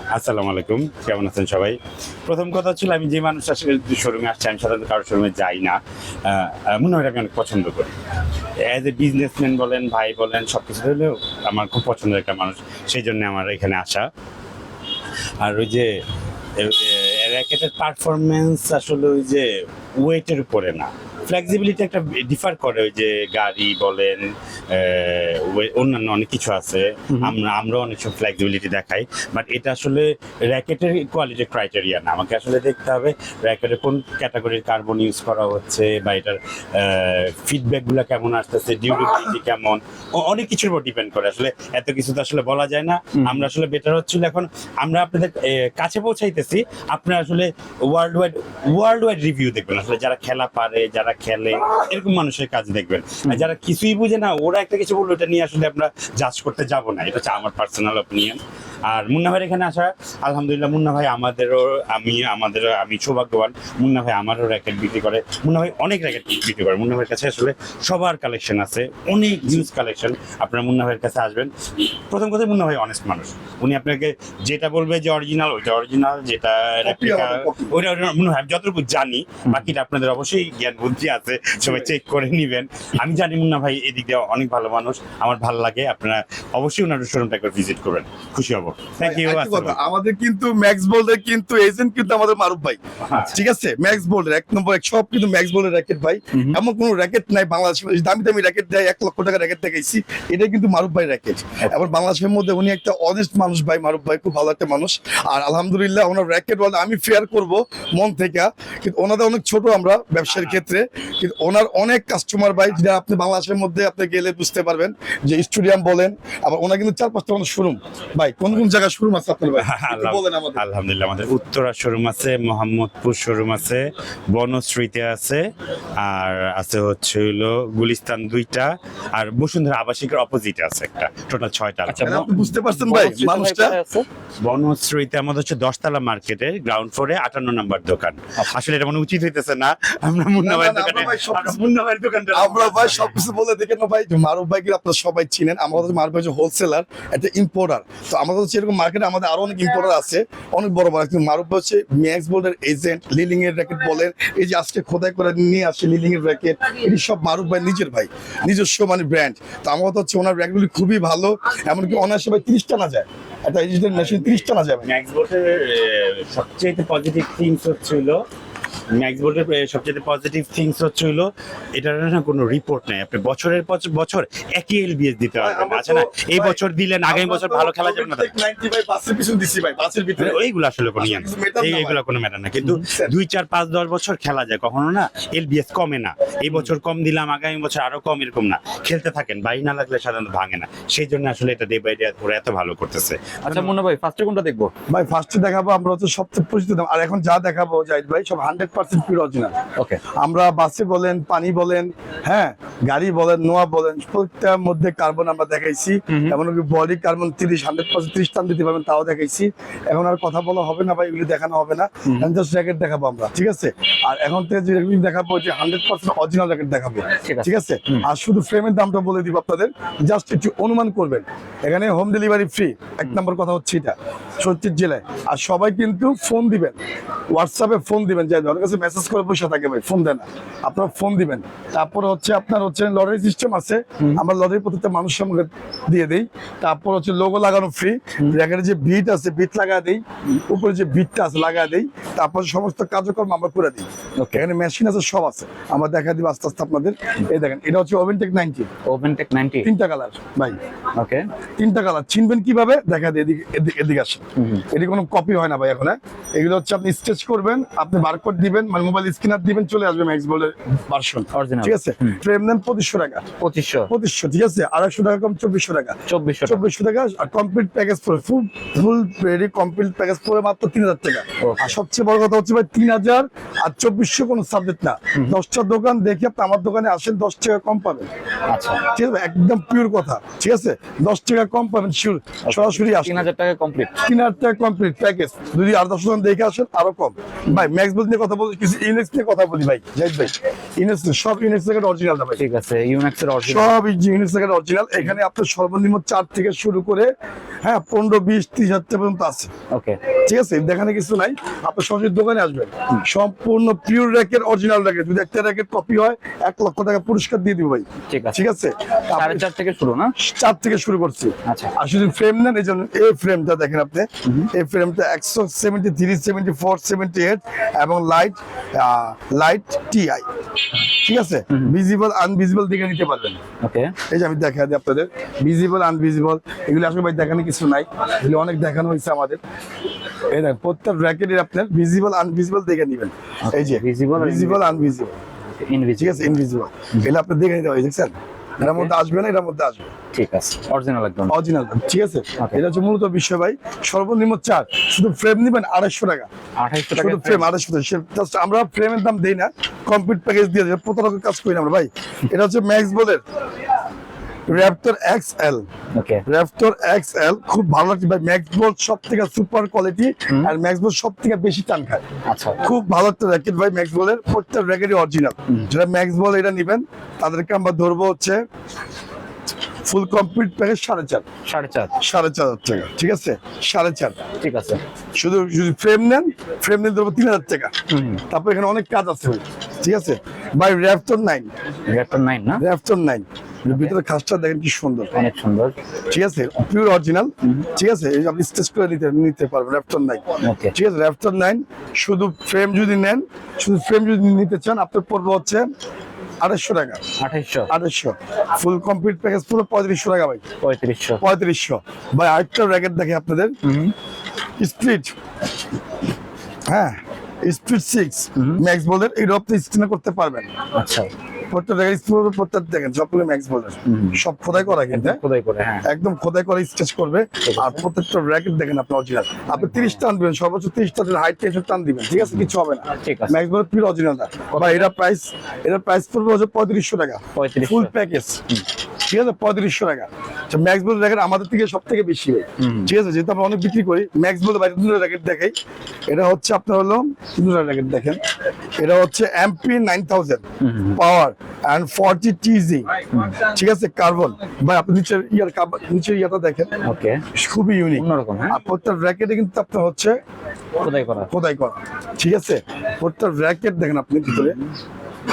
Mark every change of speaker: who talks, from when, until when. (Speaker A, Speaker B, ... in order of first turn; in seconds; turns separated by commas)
Speaker A: 0.1-14.1, Speaker A: 15.4-15.9, Speaker A: 16.6-19.5, Speaker A: 20.0-89.8, Speaker B: 43.2-43.5, Speaker B: 53.2-53.5, Speaker C: 76.8-77.7, Speaker C: 89.0-120.6, Speaker B: 96.3-96.6, Speaker B: 101.6-101.9, Speaker A: 110.3-110.6, Speaker A: 119.6-125.5, Speaker A: 126.0-132.3, Speaker B: 131.9-134.1, Speaker C: 132.0-133.8, Speaker A: 134.4-143.2, Speaker C: 140.4-141.6, Speaker C: 142.3-164.9, Speaker A: 163.9-168.2, Speaker A: 168.9-178.3, Speaker C: 175.4-180.4, Speaker A: 180.2-193.7, Speaker C: 181.0-182.0, Speaker B: 193.5-194.7, Speaker C: 194.9-199.5, Speaker B: 199.8-200.0, Speaker C: 200.2-226.8, Speaker B: 206.1-206.4, Speaker B: 217.2-218.1, Speaker C: 227.3-248.7, Speaker B: 248.9-249.7, Speaker C: 249.6-250.6, Speaker B: 251.0-251.3, Speaker C: 251.6-263.2, Speaker B: 254.4-254.7, Speaker B: 261.3-262.2, Speaker B: 263.4-263.9, Speaker C: 263.9-278.1, Speaker B: 266.1-266.6, Speaker B: 271.4-271.8, Speaker B: 278.5-278.8, Speaker C: 278.8-283.3, Speaker B: 282.5-284.0, Speaker C: 284.0-292.4, Speaker B: 292.4-293.8, Speaker C: 293.4-297.1, Speaker C: 297.6-299.5, Speaker B: 299.7-300.0, Speaker C: 300.2-309.5, Speaker B: 308.1-308.4, Speaker B: 309.1-310.1, Speaker C: 310.2-320.2, Speaker B: 311.4-311.8, Speaker B: 314.2-314.5, Speaker C: 320.9-323.4, Speaker B: 323.6-323.9, Speaker C: 324.1-329.4, Speaker C: 330.3-335.1, Speaker B: 333.4-336.4, Speaker C: 336.0-339.9, Speaker B: 338.6-338.9, Speaker B: 340.1-341.4, Speaker C: 341.3-346.3, Speaker B: 346.6-347.5, Speaker C: 346.9-353.2, Speaker C: 354.5-355.7, Speaker B: 355.9-356.2, Speaker C: 356.3-362.0, Speaker B: 362.3-362.6, Speaker C: 362.6-368.4, Speaker C: 369.9-371.2, Speaker B: 371.5-372.0, Speaker C: 372.0-374.2, Speaker B: 374.4-374.8, Speaker C: 375.1-377.7, Speaker B: 377.9-378.2, Speaker C: 378.3-381.5, Speaker B: 381.9-382.6, Speaker C: 382.6-385.1, Speaker B: 383.7-383.9, Speaker B: 385.1-385.8, Speaker C: 386.1-395.7, Speaker B: 390.4-390.7, Speaker C: 396.4-397.0, Speaker B: 397.2-397.7, Speaker C: 397.7-400.4, Speaker B: 400.6-401.2, Speaker C: 401.2-403.5, Speaker B: 403.6-403.9, Speaker C: 404.6-405.1, Speaker C: 406.7-410.5, Speaker B: 408.4-408.6, Speaker B: 410.8-411.1, Speaker C: 411.5-415.2, Speaker B: 413.9-415.9, Speaker C: 415.9-428.4, Speaker B: 417.4-417.8, Speaker B: 419.6-420.0, Speaker B: 422.2-423.4, Speaker B: 424.5-424.9, Speaker B: 427.4-427.9, Speaker C: 429.1-435.5, Speaker B: 432.6-432.9, Speaker C: 436.1-438.2, Speaker C: 438.8-440.4, Speaker B: 440.6-441.0, Speaker C: 441.0-442.9, Speaker B: 443.1-443.4, Speaker C: 443.4-446.7, Speaker B: 446.8-447.2, Speaker C: 447.4-450.1, Speaker B: 447.9-448.6, Speaker B: 450.8-451.3, Speaker C: 451.3-454.6, Speaker B: 454.3-454.6